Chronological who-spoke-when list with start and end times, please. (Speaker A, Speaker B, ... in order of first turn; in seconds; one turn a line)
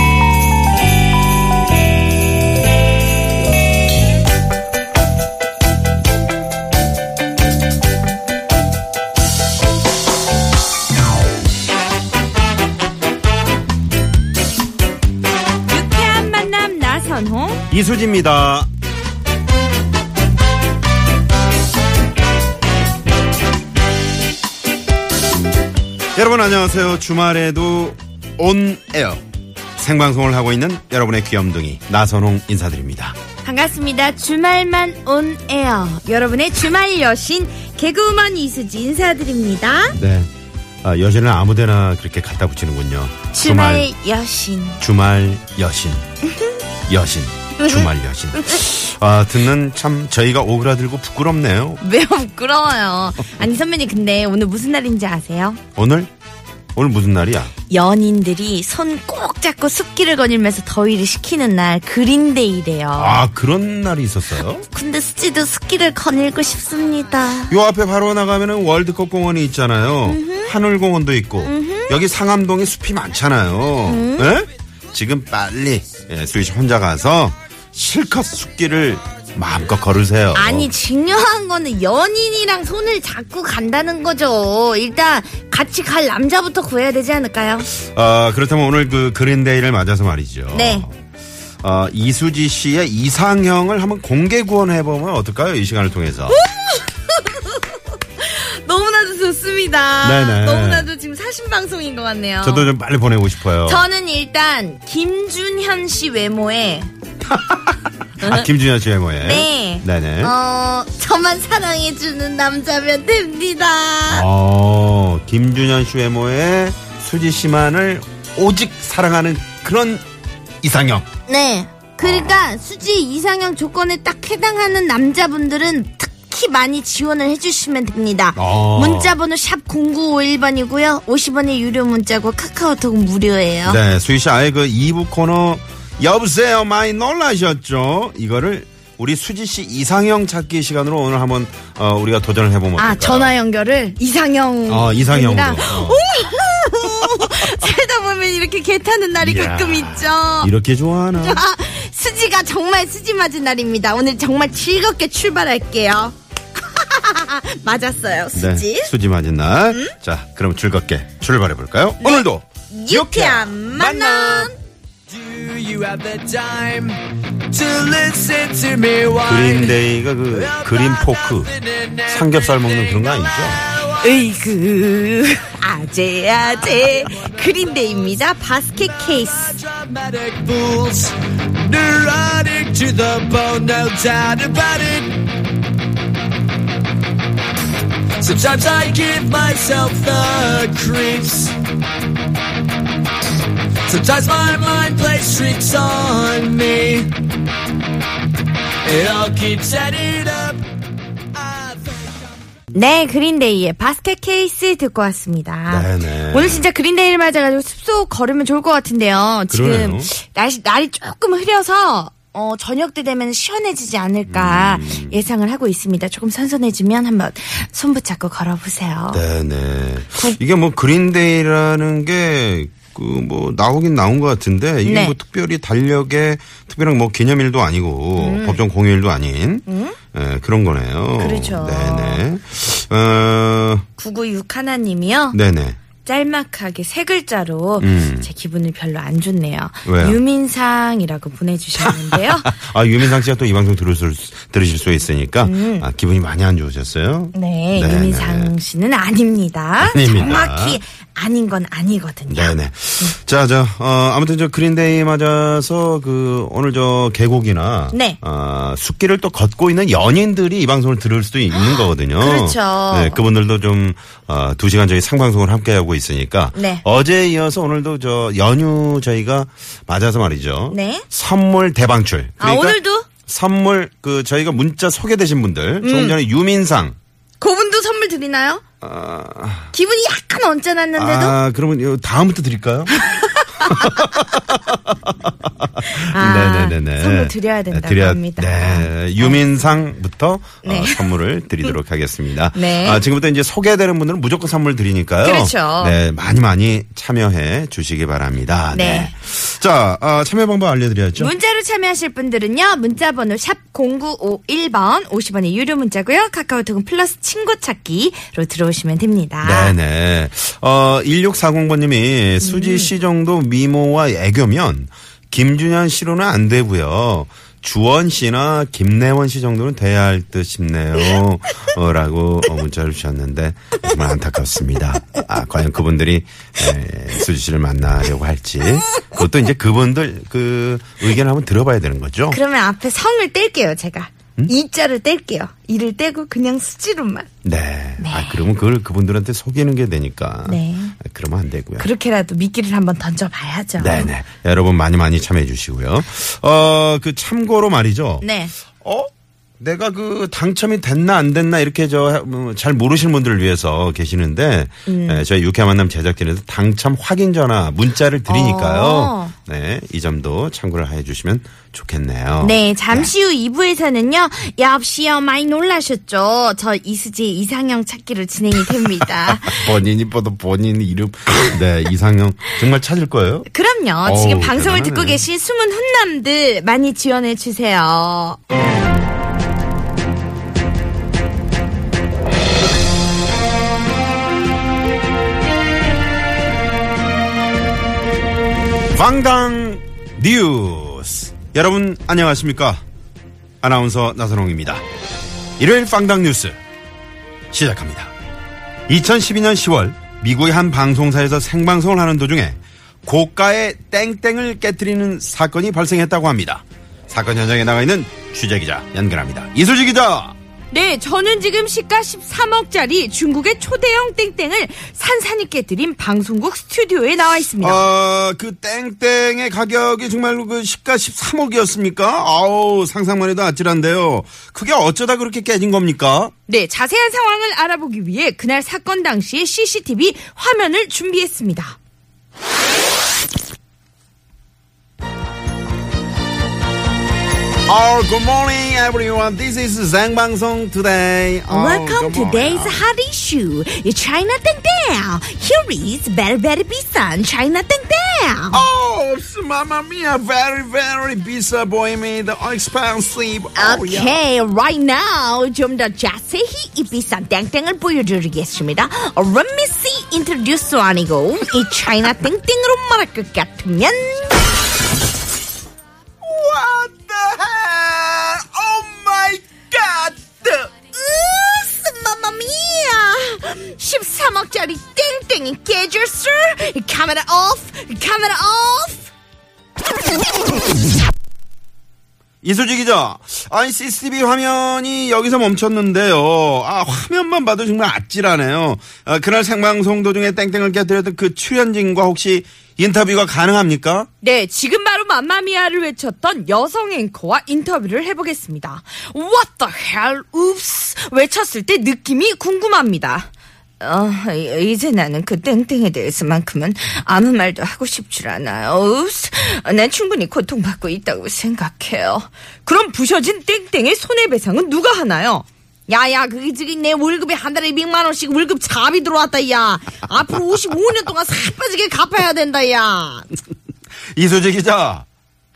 Speaker A: 15.7-17.6
Speaker B: 17.7-18.7
Speaker B: 26.1-29.2
Speaker B: 29.8-33.2
Speaker A: 33.4-40.0
Speaker B: 39.9-40.3
Speaker B: 40.8-43.9
Speaker A: 43.3-44.8
Speaker B: 44.8-46.0
Speaker B: 46.9-51.8
Speaker A: 47.6-48.6
Speaker A: 51.8-55.6
Speaker B: 55.8-56.1
Speaker B: 56.7-57.5
Speaker A: 57.7-63.2
Speaker B: 63.0-64.6
Speaker A: 64.6-67.6
Speaker B: 67.5-80.7
Speaker A: 70.0-70.5
Speaker A: 71.4-72.0
Speaker A: 73.8-74.3
Speaker A: 80.3-87.7
Speaker B: 87.7-90.9
Speaker A: 90.5-90.8
Speaker B: 91.6-96.4
Speaker A: 96.3-102.7
Speaker B: 100.0-100.9
Speaker B: 102.4-103.8
Speaker A: 103.6-106.9
Speaker B: 107.3-110.3
Speaker A: 108.2-108.5
Speaker A: 109.2-114.2
Speaker B: 114.1-120.0
Speaker B: 120.6-121.1
Speaker A: 121.3-133.8
Speaker B: 122.0-122.3
Speaker B: 128.3-129.2
Speaker B: 133.6-143.3
Speaker A: 142.8-150.5
Speaker B: 144.7-146.0
Speaker B: 149.2-151.4
Speaker A: 151.2-158.9
Speaker B: 158.3-164.5
Speaker A: 162.0-164.6
Speaker C: 165.1-169.8
Speaker B: 169.2-171.5
Speaker C: 170.3-174.0
Speaker B: 172.1-173.7
Speaker A: 174.0-179.6
Speaker C: 179.1-185.2
Speaker C: 188.2-191.6
Speaker C: 193.8-197.1
Speaker C: 198.8-200.6
Speaker C: 201.4-202.1
Speaker A: 202.7-219.2
Speaker B: 205.7-206.7
Speaker B: 209.5-210.1
Speaker B: 214.3-215.2
Speaker B: 219.1-233.8
Speaker A: 220.1-220.4
Speaker A: 224.8-225.2
Speaker A: 228.2-228.6
Speaker A: 229.7-230.0
Speaker A: 231.2-232.2
Speaker A: 234.0-235.4
Speaker B: 235.3-235.8
Speaker A: 236.0-242.5
Speaker B: 237.8-238.3
Speaker B: 239.8-240.2
Speaker B: 241.8-248.5
Speaker A: 245.4-245.9
Speaker A: 247.3-253.1
Speaker B: 249.8-250.8
Speaker B: 252.3-276.9
Speaker A: 257.9-258.2
Speaker A: 261.5-263.2
Speaker A: 266.5-266.8
Speaker A: 270.7-271.1
Speaker A: 272.4-273.1
Speaker A: 275.8-276.2
Speaker A: 277.4-278.6
Speaker B: 278.8-279.7
Speaker A: 279.7-281.4
Speaker B: 280.9-282.9
Speaker A: 282.9-284.4
Speaker B: 283.6-301.3
Speaker A: 285.8-289.4
Speaker A: 290.6-291.1
Speaker A: 292.5-293.0
Speaker A: 295.2-296.0
Speaker A: 298.7-299.1
Speaker A: 301.2-309.8
Speaker B: 309.4-332.4
Speaker A: 312.4-312.9
Speaker A: 332.3-337.3
Speaker B: 337.4-341.9
Speaker A: 338.0-338.4
Speaker A: 340.4-340.9
Speaker A: 341.8-344.1
Speaker B: 343.8-348.3
Speaker A: 348.2-348.5
Speaker B: 348.8-349.1
Speaker B: 349.6-363.1
Speaker A: 354.9-355.3
Speaker A: 358.3-359.3
Speaker A: 362.4-369.7
Speaker B: 369.2-373.5
Speaker A: 373.5-378.4
Speaker B: 374.0-375.2
Speaker B: 388.9-392.8
Speaker B: 393.6-394.8
Speaker B: 395.6-396.6
Speaker B: 397.5-398.1
Speaker B: 398.9-410.3
Speaker A: 410.7-417.9
Speaker B: 417.6-426.3
Speaker A: 426.5-431.8
Speaker B: 437.6-442.9
Speaker A: 441.5-448.6
Speaker B: 448.5-454.2
Speaker A: 453.5-464.4
Speaker B: 466.2-470.7
Speaker A: 470.9-479.1
Speaker B: 482.4-494.1
Speaker A: 494.2-523.3
Speaker B: 524.1-525.0